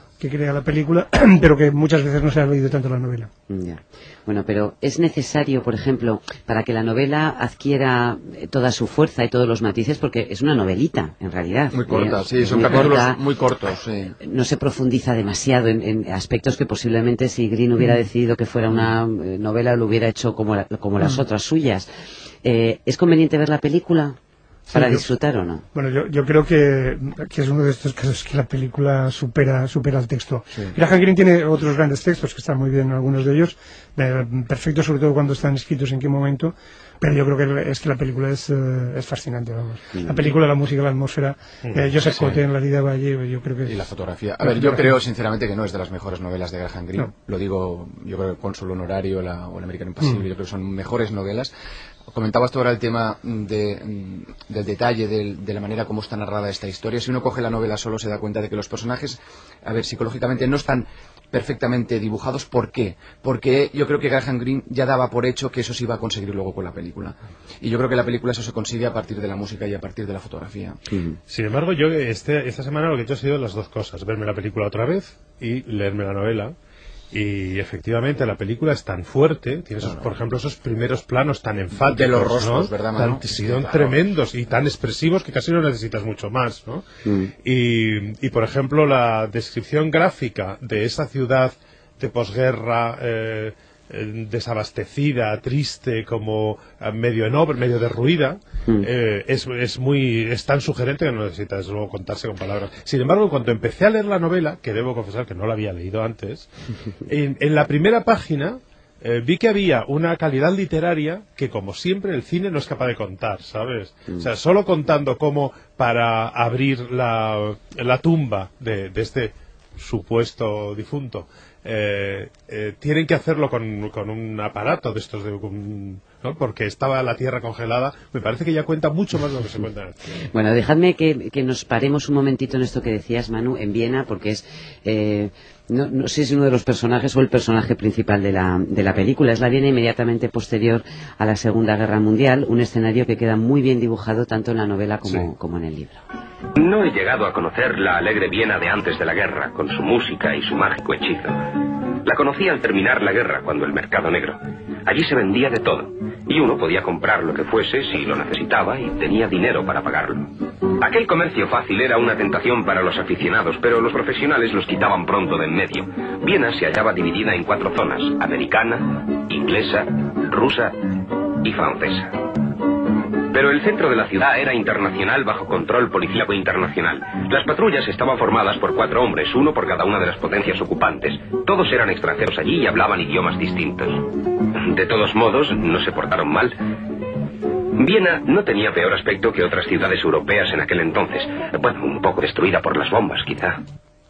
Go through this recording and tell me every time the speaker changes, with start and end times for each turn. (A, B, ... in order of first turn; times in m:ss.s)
0:00.2-0:03.3 A
0:03.5-0:13.2 B
0:11.7-0:14.2 C
0:14.2-0:21.9 B
0:22.4-0:24.2 B
0:24.7-0:25.1 A
0:24.7-0:25.6 B
0:25.7-0:43.9 A
0:41.6-0:42.4 D
0:43.6-0:51.5 C
0:44.4-0:45.0 A
0:52.1-1:10.8 C
1:10.9-1:11.2 B
1:11.3-1:16.6 D
1:17.1-1:26.8 D
1:19.8-1:20.1 C
1:21.8-1:24.0 C
1:27.0-1:27.3 B
1:27.4-1:46.5 D
1:47.1-2:10.0 D
2:10.3-2:26.0 B
2:26.6-2:50.9 E
2:51.4-2:52.2 E
2:53.3-3:06.6 E
3:07.8-3:13.6 E